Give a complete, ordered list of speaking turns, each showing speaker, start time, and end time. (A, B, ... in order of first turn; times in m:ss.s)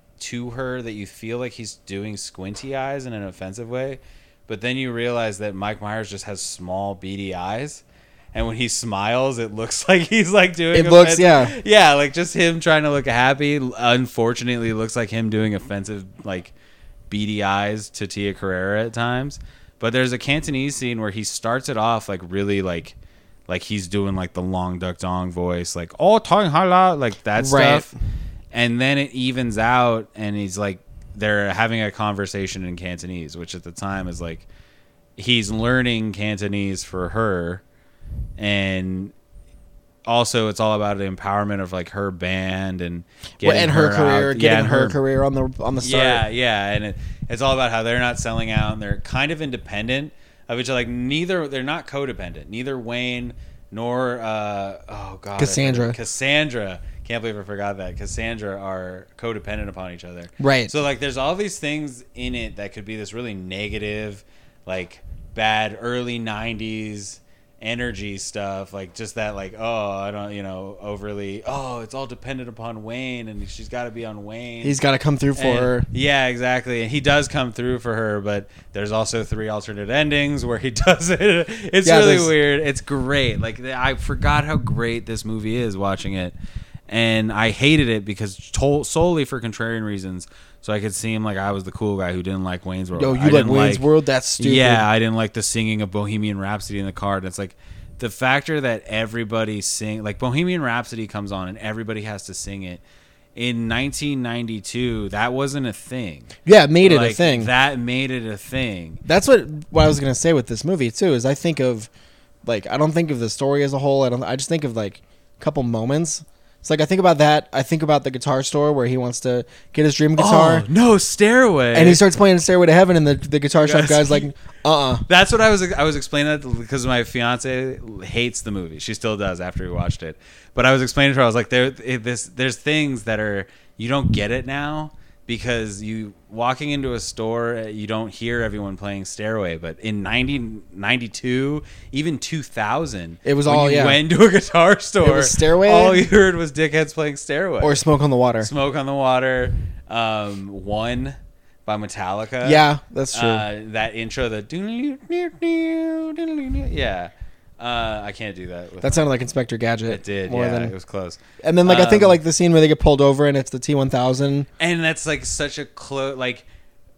0:00.2-0:07.8 A
0:08.3-0:16.5 A
0:10.7-0:11.5 B
0:17.1-0:23.0 A
0:23.5-0:27.9 A
0:27.4-0:28.0 B
0:28.5-0:34.4 A
0:35.2-0:37.6 A
0:38.4-0:39.1 A
0:40.0-0:45.0 A
0:43.4-0:46.2 B
0:45.8-1:14.8 A
0:55.4-0:56.0 B
1:00.4-1:00.7 B
1:14.6-1:15.9 B
1:15.4-1:26.4 A
1:21.8-1:22.3 B
1:26.9-1:42.8 A
1:32.9-1:34.9 B
1:43.4-1:46.3 A
1:46.4-1:47.5 B
1:46.8-1:49.0 A
1:49.0-1:51.9 B
1:52.4-2:00.7 B
2:00.2-2:02.0 A
2:01.7-2:05.0 B
2:03.6-2:04.3 A
2:05.1-2:27.8 A
2:23.2-2:24.0 B
2:25.0-2:26.1 B
2:27.6-2:28.5 B
2:28.4-2:39.0 A
2:32.4-2:33.4 B
2:38.8-2:40.7 B
2:39.9-2:42.2 A
2:41.4-2:44.5 B
2:44.6-2:46.4 A